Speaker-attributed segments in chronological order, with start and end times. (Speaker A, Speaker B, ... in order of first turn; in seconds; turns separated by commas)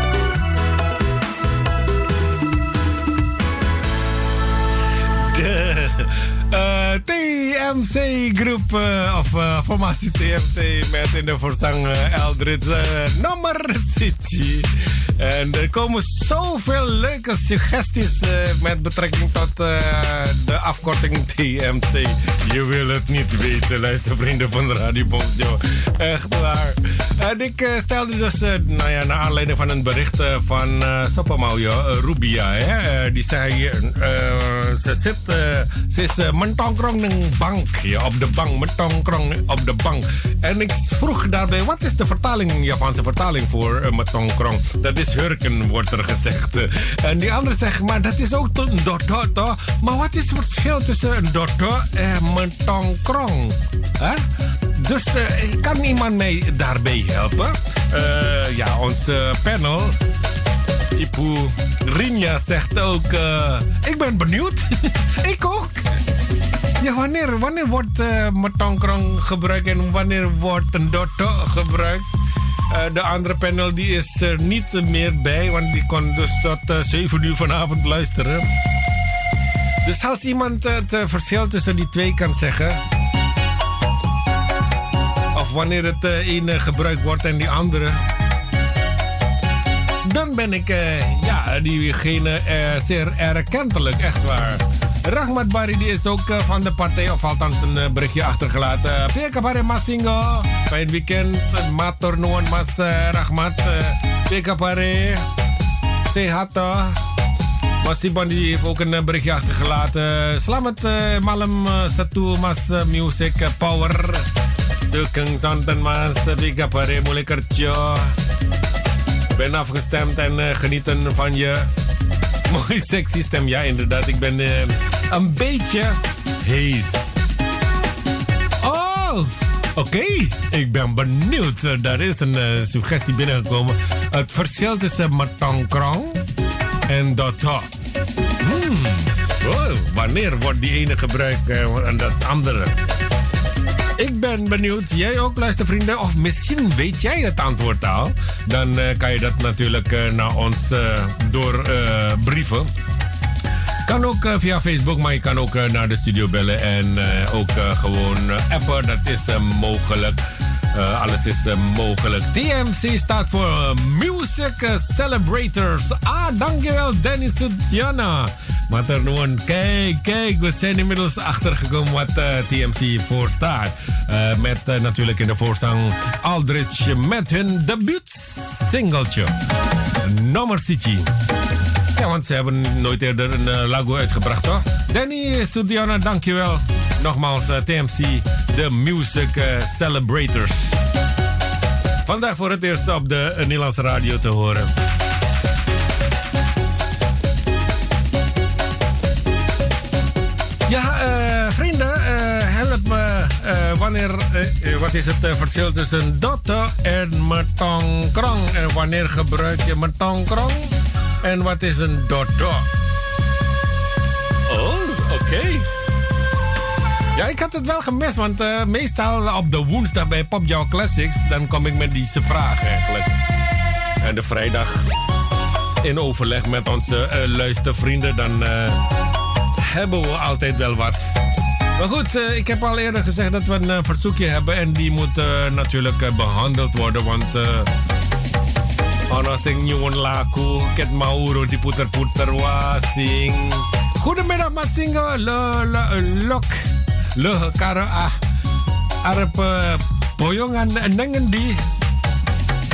Speaker A: 5.3-54.2, Speaker A: 54.8-59.9, Speaker A: 61.0-66.0, Speaker A: 66.8-72.0, Speaker A: 72.7-78.5, Speaker A: 79.8-82.8, Speaker A: 85.3-88.0, Speaker A: 90.0-105.2, Speaker A: 106.1-107.0, Speaker A: 107.8-114.3, Speaker A: 114.9-118.1, Speaker A: 119.3-121.7, Speaker A: 122.5-127.1, Speaker A: 128.6-136.2, Speaker A: 136.9-137.7, Speaker A: 138.4-142.7, Speaker A: 144.0-152.7, Speaker A: 153.9-160.2, Speaker A: 160.7-179.3, Speaker A: 180.0-181.1, Speaker A: 181.9-190.8, Speaker A: 192.1-194.7, Speaker A: 200.7-210.7, Speaker A: 211.2-212.6, Speaker A: 214.5-215.7, Speaker A: 217.1-223.1, Speaker A: 224.0-224.9, Speaker A: 225.8-228.8, Speaker A: 229.7-231.1, Speaker A: 231.8-237.7, Speaker A: 239.1-246.6, Speaker A: 247.2-248.1, Speaker A: 249.1-251.6